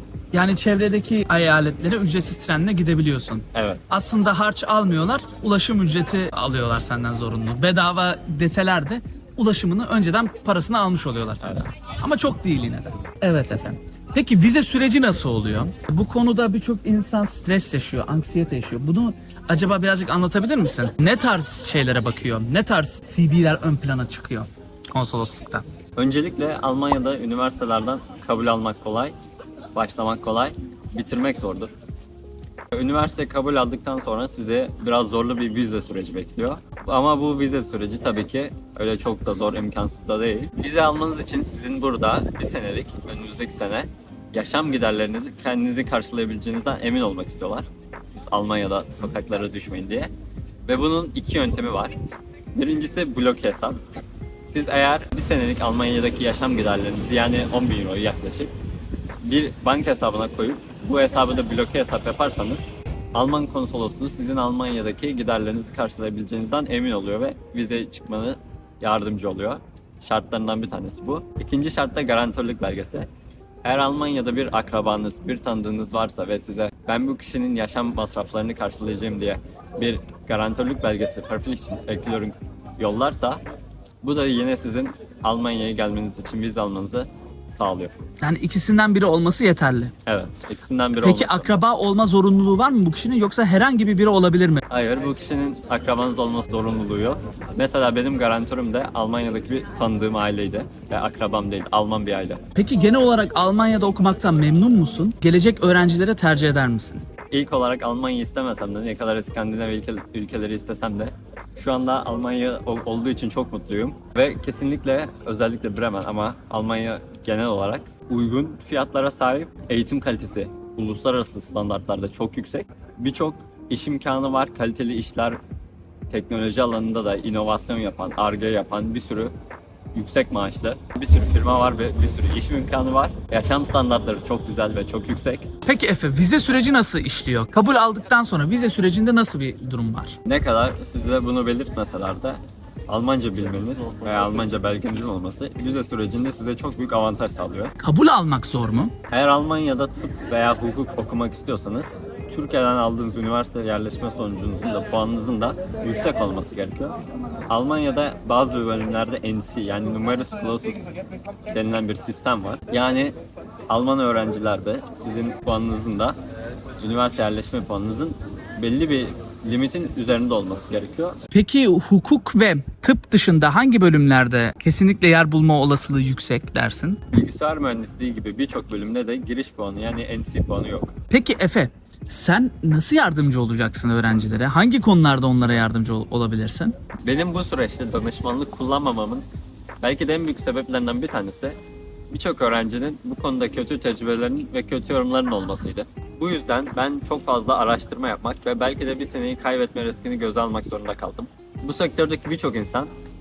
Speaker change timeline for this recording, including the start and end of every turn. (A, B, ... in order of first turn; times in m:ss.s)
0:00.3-0:25.6 A
0:03.5-0:03.8 B
0:26.0-0:29.1 B
0:29.7-0:31.7 B
0:32.7-0:50.1 B
0:50.6-0:52.0 B
0:52.5-0:53.8 B
0:54.4-0:58.5 B
0:59.2-1:13.1 B
1:13.6-1:23.4 B
1:24.0-1:27.9 B
1:28.2-1:29.9 A
1:30.0-1:31.6 B
1:31.0-1:34.6 A
1:34.7-1:42.4 B
1:42.6-1:47.0 A
1:47.3-2:05.4 B
2:06.1-2:09.3 B
2:09.9-2:15.5 B
2:15.6-2:20.2 A
2:20.2-2:27.7 B
2:27.8-2:28.9 A
2:29.1-2:40.8 B
2:41.5-2:43.1 B
2:43.7-2:46.2 B
2:46.8-2:51.2 B
2:51.3-2:57.0 A
2:57.1-3:00.9 B
3:01.1-3:06.7 A
3:07.0-3:09.2 B
3:09.8-3:11.6 B
3:12.1-3:22.9 B